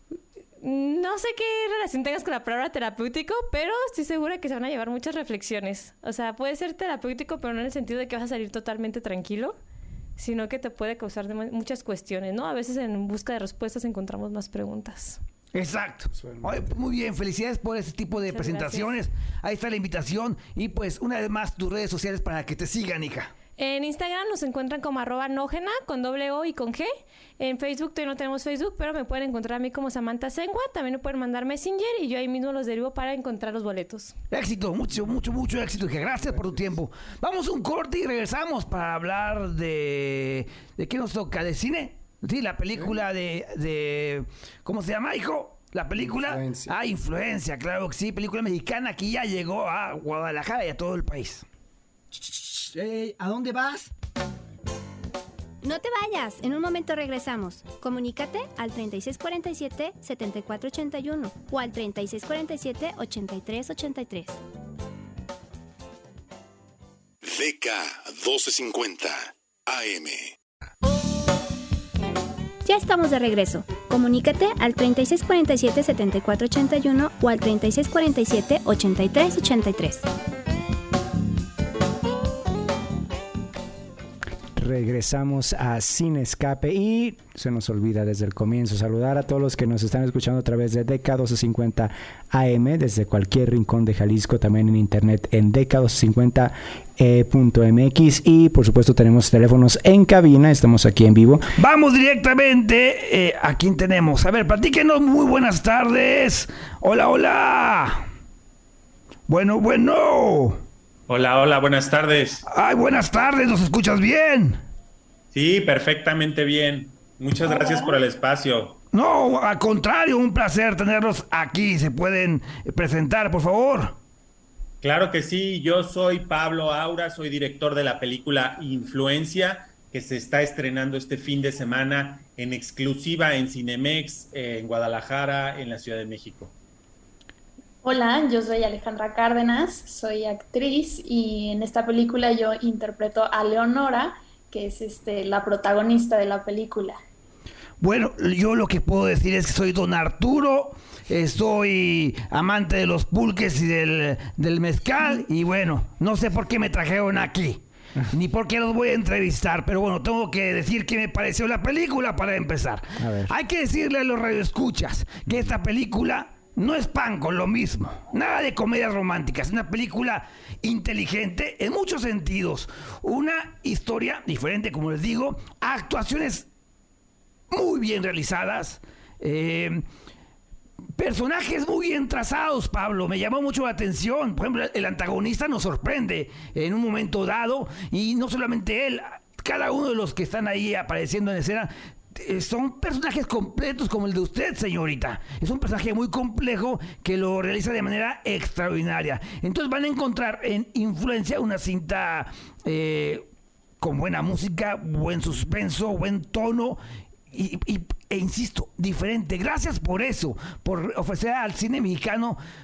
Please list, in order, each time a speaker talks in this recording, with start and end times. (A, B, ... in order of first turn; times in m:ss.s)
0:00.6-0:09.6 A
0:10.2-0:15.2 A
0:15.5-0:23.3 B
0:16.1-0:16.7 C
0:18.1-0:18.9 A
0:23.6-0:34.2 A
0:34.3-0:51.4 B
0:36.3-0:36.6 C
0:46.0-0:46.7 C
0:52.2-0:53.9 B
0:55.6-1:04.4 D
1:07.3-1:10.2 E
1:12.6-1:20.1 D
1:24.6-1:41.5 C
1:41.6-1:48.0 B
1:49.3-1:50.6 B
1:51.1-1:52.4 F
1:52.5-1:54.6 B
1:55.3-1:58.8 F
1:57.4-1:58.0 G
1:58.9-2:04.0 B
2:04.8-2:16.5 F
2:17.8-2:27.0 G
2:27.8-2:56.5 B
2:43.0-2:43.3 C
2:57.5-2:59.8 B
3:01.0-3:23.3 B
3:23.8-3:26.8 B
3:27.3-3:32.4 B